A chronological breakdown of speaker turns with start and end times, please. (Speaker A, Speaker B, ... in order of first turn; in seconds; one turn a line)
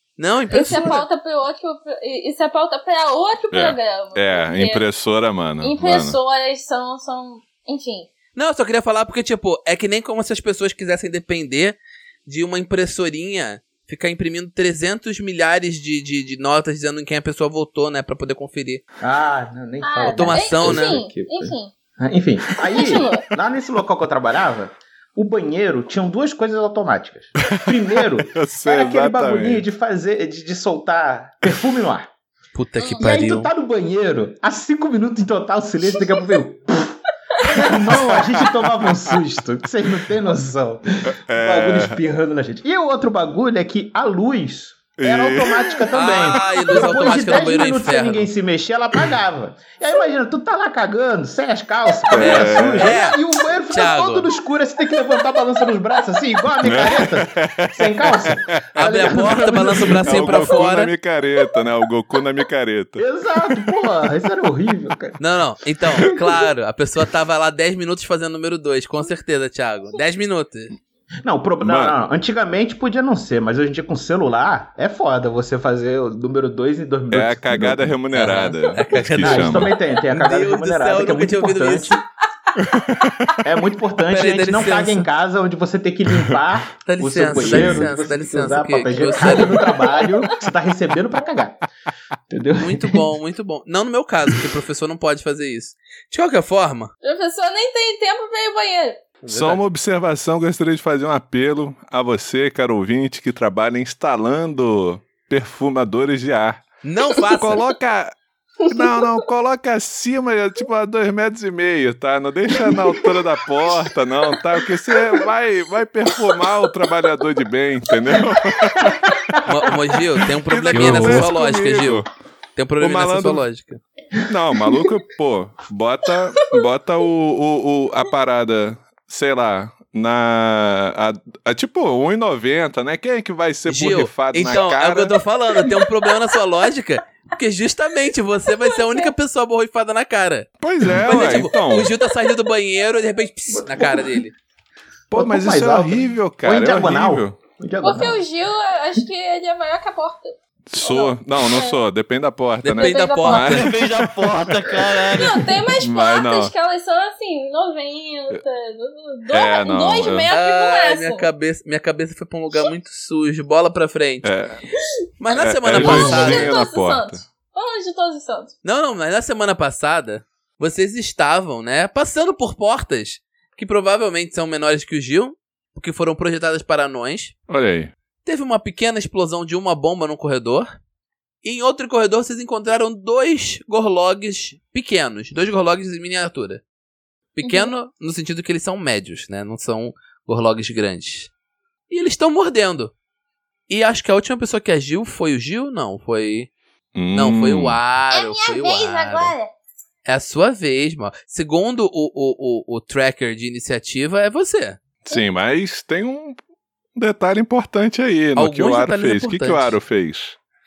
Speaker A: 0.2-1.0
Speaker B: 0.5-4.8
Speaker C: 3.5-6.2
Speaker B: 5.6-8.1
Speaker A: 8.3-18.8
Speaker D: 19.0-32.1
Speaker B: 19.8-21.7
Speaker A: 20.1-21.0
Speaker B: 22.7-23.2
Speaker C: 27.5-29.6
Speaker A: 32.5-33.5
Speaker B: 32.8-33.1
Speaker D: 33.0-60.5
Speaker C: 37.9-38.3
Speaker C: 41.0-42.0
Speaker C: 45.0-45.7
Speaker A: 45.9-48.3
Speaker B: 46.2-47.2
Speaker C: 52.1-53.0
Speaker A: 52.1-53.2
Speaker A: 53.7-54.3
Speaker B: 55.0-55.6
Speaker C: 56.6-58.8
Speaker A: 58.7-60.9
Speaker C: 60.0-63.8
Speaker D: 63.0-65.2
Speaker A: 65.2-70.8
Speaker D: 71.2-78.0
Speaker C: 71.6-72.0
Speaker C: 77.1-79.7
Speaker A: 78.1-82.0
Speaker D: 79.2-82.0
Speaker C: 82.6-83.3
Speaker D: 83.4-91.6
Speaker A: 84.1-85.1
Speaker A: 86.8-89.8
Speaker C: 87.3-87.9
Speaker B: 89.2-90.3
Speaker D: 92.3-93.0
Speaker A: 92.5-96.9
Speaker B: 97.0-99.0
Speaker A: 99.2-99.6
Speaker C: 99.3-106.7
Speaker A: 106.8-107.7
Speaker C: 107.3-108.1
Speaker C: 108.7-119.0
Speaker B: 108.8-109.2
Speaker B: 112.6-113.2
Speaker A: 119.4-122.0
Speaker C: 120.5-122.1
Speaker E: 120.7-121.3
Speaker A: 122.5-123.8
Speaker C: 122.8-123.4
Speaker C: 124.3-135.2
Speaker A: 133.7-144.3
Speaker B: 135.6-136.4
Speaker B: 138.5-139.1
Speaker C: 140.6-141.9
Speaker B: 141.6-142.3
Speaker D: 143.5-144.2
Speaker C: 145.1-147.4
Speaker D: 145.1-148.2
Speaker B: 147.8-151.8
Speaker C: 150.7-154.7
Speaker A: 152.6-153.7
Speaker B: 152.8-153.6
Speaker E: 153.5-155.6
Speaker B: 155.1-161.3
Speaker C: 155.8-156.5
Speaker C: 159.3-160.3
Speaker A: 160.3-164.3
Speaker C: 164.2-164.6
Speaker A: 165.2-166.5
Speaker C: 165.3-167.2
Speaker B: 165.7-168.5
Speaker A: 168.6-177.3
Speaker C: 177.5-177.9
Speaker A: 178.2-180.7
Speaker A: 181.4-186.6
Speaker A: 187.3-191.3
Speaker B: 187.4-187.7
Speaker A: 191.9-192.9
Speaker A: 193.7-196.5
Speaker C: 196.9-197.8
Speaker A: 197.1-199.3
Speaker B: 198.1-199.5
Speaker A: 200.1-204.8
Speaker C: 205.0-206.4
Speaker C: 206.9-210.4
Speaker A: 208.3-209.8